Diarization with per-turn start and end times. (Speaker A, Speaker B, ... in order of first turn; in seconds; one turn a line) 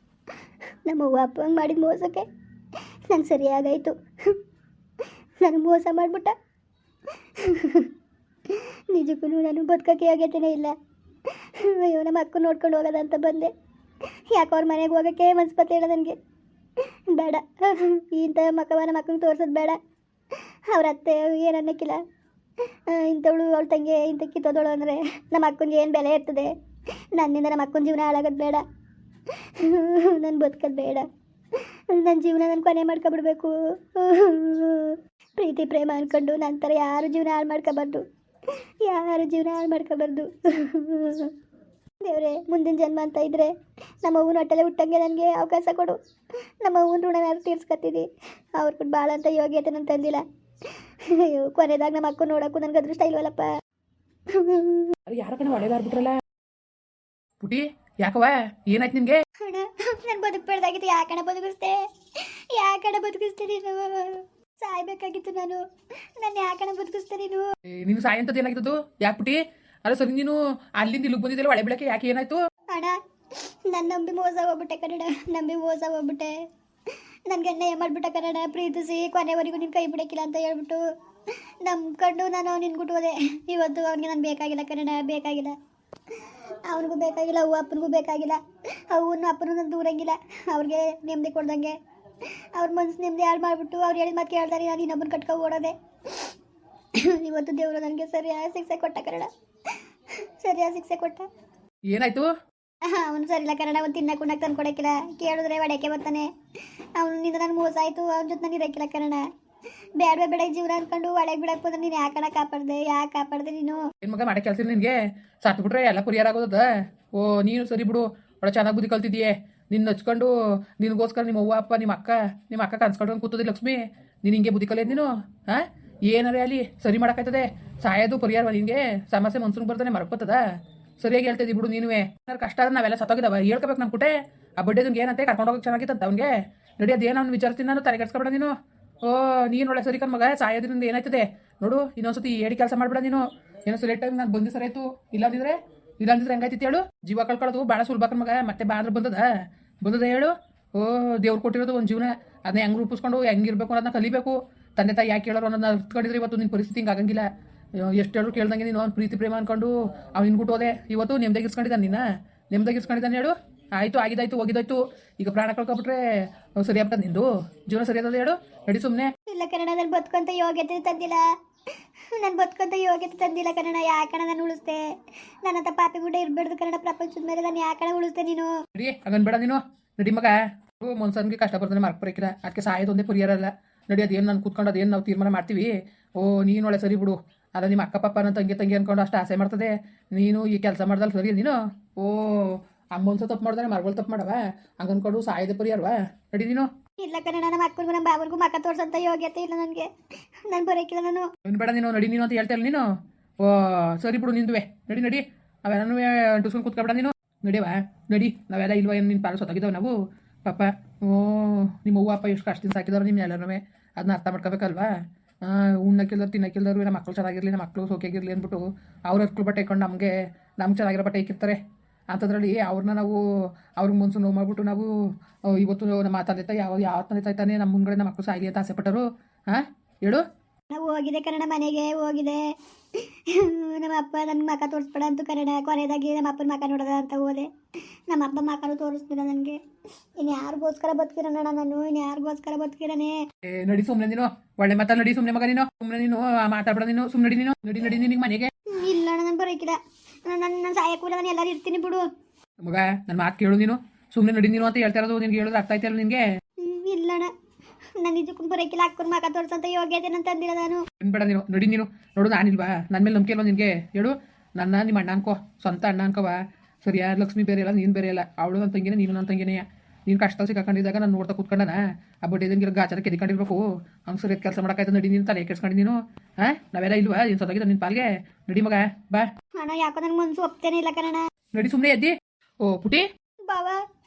Speaker A: 0.8-2.2
Speaker A: 3.1-4.4
Speaker A: 5.4-6.3
Speaker A: 7.2-7.9
Speaker A: 8.5-10.7
Speaker A: 11.3-13.5
Speaker A: 14.3-16.2
Speaker A: 16.8-19.8
Speaker A: 20.3-22.0
Speaker A: 22.7-26.5
Speaker A: 27.1-28.6
Speaker A: 29.3-41.3
Speaker A: 42.0-43.5
Speaker A: 44.0-46.0
Speaker A: 46.6-53.5
Speaker A: 54.3-55.0
Speaker B: 55.1-56.1
Speaker B: 57.4-59.2
Speaker A: 59.4-65.6
Speaker A: 66.2-67.4
Speaker B: 67.6-72.4
Speaker A: 72.7-76.4
Speaker A: 77.3-80.8
Speaker A: 81.6-85.5
Speaker A: 86.1-96.3
Speaker A: 96.9-101.3
Speaker B: 101.8-102.3
Speaker A: 102.9-106.3
Speaker A: 107.0-109.2
Speaker A: 110.0-113.8
Speaker B: 114.0-130.4
Speaker B: 131.0-169.1
Speaker A: 169.3-171.2
Speaker A: 172.0-174.8
Speaker A: 175.4-178.5
Speaker B: 178.7-196.7
Speaker A: 197.0-199.9
Speaker A: 200.5-201.3
Speaker B: 201.4-224.9
Speaker B: 225.4-230.2
Speaker A: 230.7-239.6
Speaker A: 240.2-243.2
Speaker B: 243.4-248.5
Speaker A: 248.7-252.1
Speaker B: 252.6-256.2
Speaker A: 256.6-257.3
Speaker A: 258.0-260.8
Speaker B: 261.0-279.3
Speaker A: 279.6-281.2
Speaker B: 281.5-283.1
Speaker A: 283.5-283.8